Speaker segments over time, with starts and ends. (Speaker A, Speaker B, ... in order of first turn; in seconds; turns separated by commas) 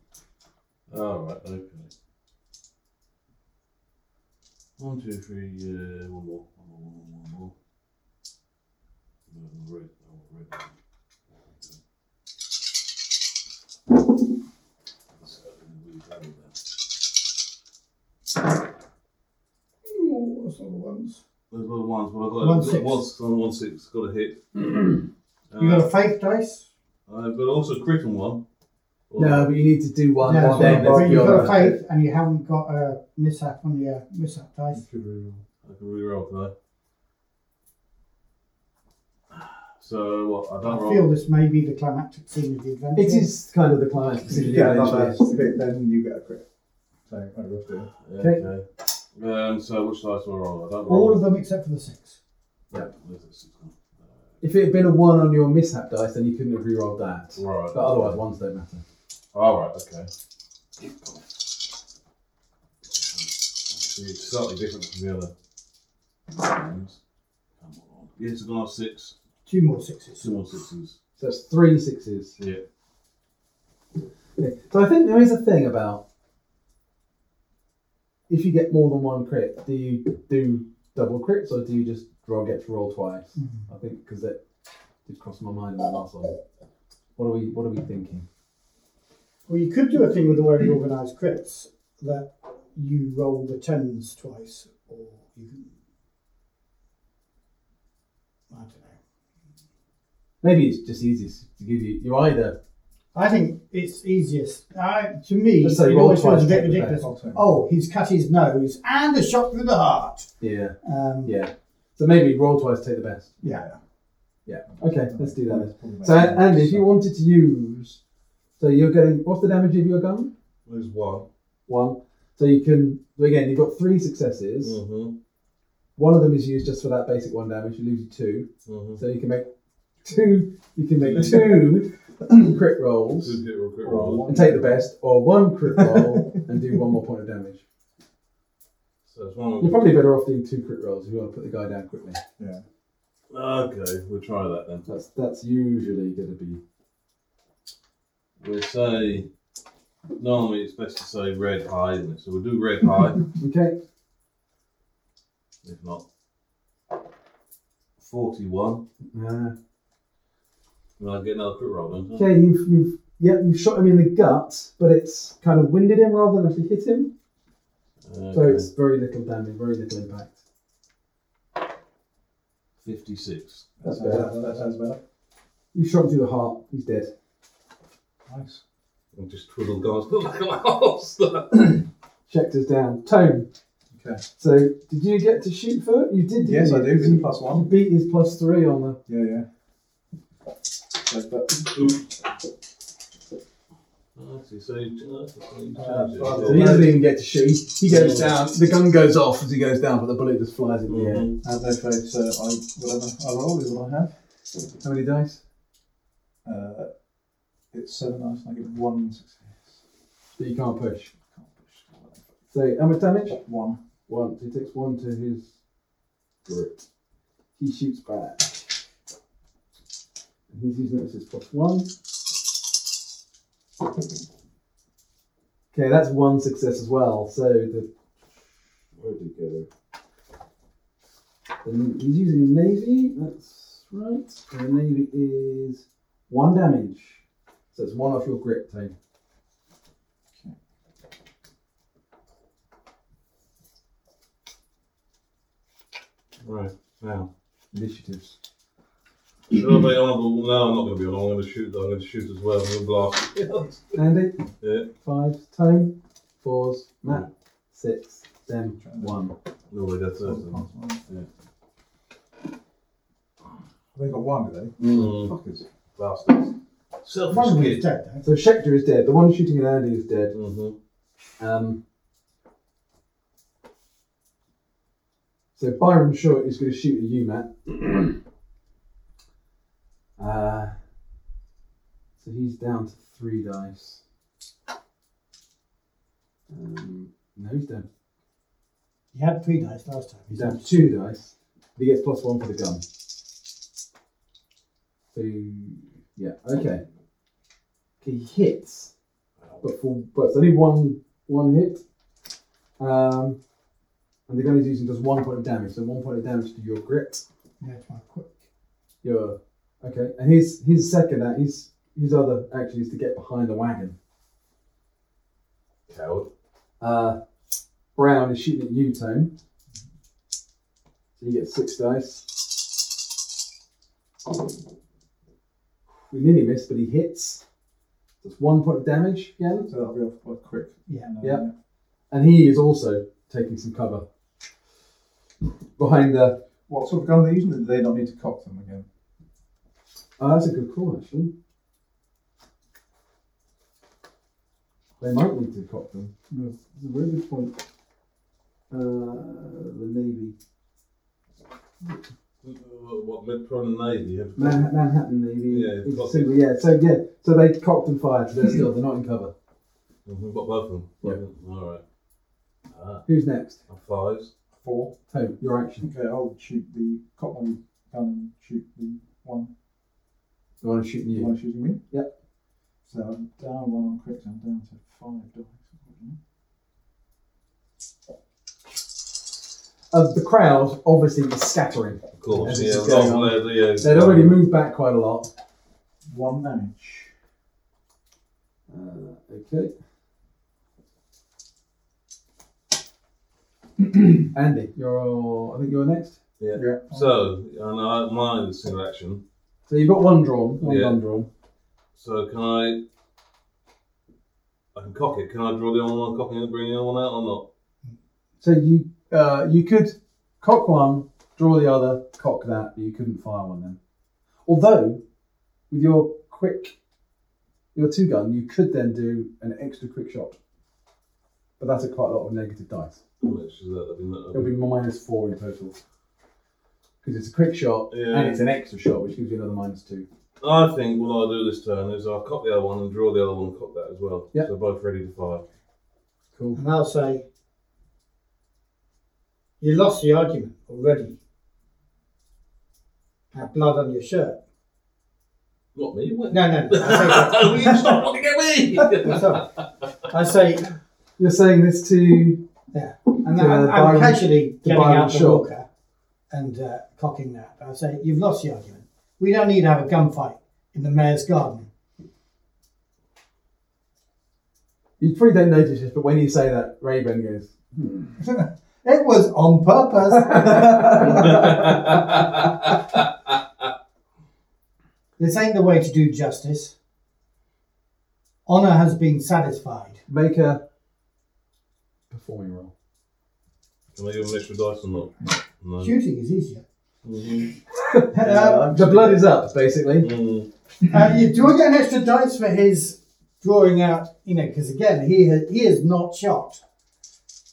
Speaker A: 0.9-1.9, Speaker A: 4.8-7.5, Speaker A: 9.3-10.7, Speaker A: 15.2-16.6, Speaker B: 19.9-21.2, Speaker A: 21.5-24.4, Speaker B: 22.4-23.0, Speaker A: 25.5-25.9, Speaker B: 25.6-26.6, Speaker A: 27.1-28.4, Speaker A: 29.1-29.5, Speaker C: 29.2-31.8, Speaker B: 30.2-34.8, Speaker D: 30.2-31.7, Speaker D: 34.7-35.4, Speaker A: 35.6-36.5, Speaker A: 39.3-41.1, Speaker B: 40.6-43.3, Speaker C: 42.9-45.3, Speaker D: 44.3-46.4, Speaker D: 47.1-47.9, Speaker A: 48.0-48.6, Speaker C: 48.2-48.4, Speaker A: 49.1-51.2, Speaker B: 50.9-52.2, Speaker A: 52.7-53.8, Speaker C: 54.4-58.8, Speaker A: 57.4-58.2, Speaker A: 59.3-60.1, Speaker A: 63.6-65.3, Speaker A: 66.3-67.0, Speaker A: 67.6-69.1, Speaker B: 69.5-70.4, Speaker A: 70.2-71.0, Speaker C: 71.2-72.4, Speaker C: 74.4-76.0, Speaker C: 78.3-84.4, Speaker C: 85.0-86.4, Speaker C: 87.2-88.2, Speaker B: 89.5-95.7, Speaker B: 98.5-99.0, Speaker C: 100.4-102.6, Speaker B: 103.1-110.3, Speaker C: 105.6-107.0, Speaker D: 107.0-107.6, Speaker C: 110.4-113.3, Speaker B: 110.8-111.3, Speaker B: 113.4-113.7, Speaker D: 113.4-113.8, Speaker C: 114.5-118.0, Speaker D: 114.7-116.9, Speaker C: 118.6-120.3, Speaker A: 120.7-121.2, Speaker C: 121.7-124.8, Speaker A: 124.6-125.1, Speaker C: 126.0-129.5, Speaker A: 128.7-129.0, Speaker C: 130.0-133.4, Speaker A: 131.0-131.6, Speaker A: 133.2-134.2, Speaker D: 133.8-134.9, Speaker C: 134.3-137.6, Speaker D: 135.8-136.1, Speaker A: 139.1-139.9, Speaker C: 139.6-142.2, Speaker D: 142.4-142.6, Speaker A: 143.3-144.8, Speaker C: 144.8-146.6, Speaker A: 148.4-149.3, Speaker A: 150.2-153.3, Speaker C: 153.4-153.8, Speaker A: 155.6-156.0, Speaker A: 158.0-158.8, Speaker C: 159.1-159.5, Speaker A: 161.0-162.2, Speaker C: 162.1-167.1, Speaker A: 168.0-168.7, Speaker C: 168.3-170.4, Speaker A: 172.8-173.7, Speaker D: 173.8-175.0, Speaker C: 173.8-174.4, Speaker C: 175.7-177.1, Speaker D: 178.2-178.6, Speaker A: 179.1-181.8, Speaker C: 182.3-183.5, Speaker D: 183.9-184.2, Speaker C: 184.4-189.0, Speaker D: 186.4-187.7, Speaker D: 189.1-189.5, Speaker D: 191.0-192.0, Speaker A: 194.2-196.8, Speaker B: 195.8-196.3, Speaker D: 196.0-197.0, Speaker C: 196.4-201.3, Speaker A: 197.9-198.3, Speaker A: 200.9-201.3, Speaker D: 201.4-204.1, Speaker C: 204.8-205.4, Speaker D: 206.4-206.9, Speaker D: 207.7-209.8, Speaker C: 210.4-211.1, Speaker D: 211.3-212.2, Speaker C: 212.5-213.4, Speaker D: 213.4-213.8, Speaker C: 214.1-215.5, Speaker C: 216.4-216.8, Speaker C: 217.6-218.7, Speaker C: 220.5-221.9, Speaker C: 225.7-227.9, Speaker C: 229.0-229.7, Speaker C: 231.6-237.2, Speaker C: 237.7-238.9, Speaker A: 246.4-247.3, Speaker C: 247.7-248.3, Speaker A: 249.5-254.0, Speaker C: 253.9-254.4, Speaker A: 254.6-254.9, Speaker C: 254.9-259.3, Speaker D: 258.8-259.2, Speaker A: 259.7-261.3, Speaker D: 260.2-261.0, Speaker D: 263.9-265.6, Speaker A: 264.8-265.3, Speaker A: 265.9-267.8, Speaker B: 267.3-268.2, Speaker C: 268.2-270.3, Speaker A: 270.3-270.7, Speaker C: 271.4-271.8, Speaker C: 275.6-278.2, Speaker C: 280.2-280.7, Speaker C: 282.2-284.0, Speaker C: 286.5-287.9, Speaker B: 289.1-290.9, Speaker C: 290.3-292.8, Speaker C: 295.1-296.8, Speaker C: 298.0-298.9, Speaker C: 299.6-301.8, Speaker C: 302.8-303.4, Speaker C: 304.3-307.2, Speaker B: 307.6-308.4, Speaker C: 309.0-313.9, Speaker A: 315.9-316.3, Speaker C: 316.8-317.2, Speaker C: 317.9-319.3, Speaker C: 321.2-322.3, Speaker C: 326.1-327.4, Speaker C: 328.2-329.7, Speaker D: 329.7-331.5, Speaker C: 332.1-334.0, Speaker C: 335.8-336.4, Speaker D: 336.7-338.9, Speaker C: 340.2-341.3, Speaker C: 345.0-347.6, Speaker C: 348.7-350.4, Speaker A: 352.4-354.7, Speaker C: 354.4-359.3, Speaker A: 355.5-356.3, Speaker A: 360.1-361.8, Speaker A: 362.7-363.0, Speaker C: 363.1-363.6, Speaker A: 363.7-364.3, Speaker D: 364.6-364.9, Speaker C: 365.1-365.9, Speaker D: 365.8-369.5, Speaker C: 370.6-371.3, Speaker D: 371.1-371.8, Speaker D: 372.8-376.2, Speaker C: 379.9-385.3, Speaker A: 382.2-384.4, Speaker D: 386.1-387.1, Speaker C: 388.7-389.7, Speaker C: 394.3-396.2, Speaker A: 396.4-399.2, Speaker D: 396.5-397.1, Speaker C: 399.7-401.3, Speaker A: 400.6-401.0, Speaker A: 401.9-402.8, Speaker A: 404.7-407.4, Speaker C: 408.4-413.8, Speaker C: 414.4-415.0, Speaker C: 415.7-416.8, Speaker C: 417.7-420.4, Speaker C: 421.6-423.0, Speaker A: 423.2-424.5, Speaker C: 424.3-425.8, Speaker C: 427.0-430.1, Speaker A: 427.9-428.4, Speaker A: 430.4-435.4, Speaker C: 436.3-436.6, Speaker B: 436.5-437.2, Speaker B: 439.6-441.2, Speaker B: 443.3-444.4, Speaker A: 445.7-449.6, Speaker B: 446.3-447.9, Speaker B: 449.0-449.4, Speaker B: 450.1-450.7, Speaker C: 451.2-452.4, Speaker B: 452.7-455.6, Speaker C: 453.3-455.5, Speaker B: 456.3-461.7, Speaker C: 465.0-468.2, Speaker B: 468.2-471.7, Speaker C: 470.2-471.5, Speaker A: 470.9-472.8, Speaker B: 475.2-476.7, Speaker B: 478.4-480.0, Speaker C: 480.1-480.6, Speaker C: 482.1-482.7, Speaker A: 483.9-485.9, Speaker B: 485.8-486.6, Speaker A: 487.0-487.5, Speaker C: 487.8-490.1, Speaker B: 488.1-488.8, Speaker D: 488.2-489.1, Speaker A: 490.0-490.5, Speaker B: 490.9-496.6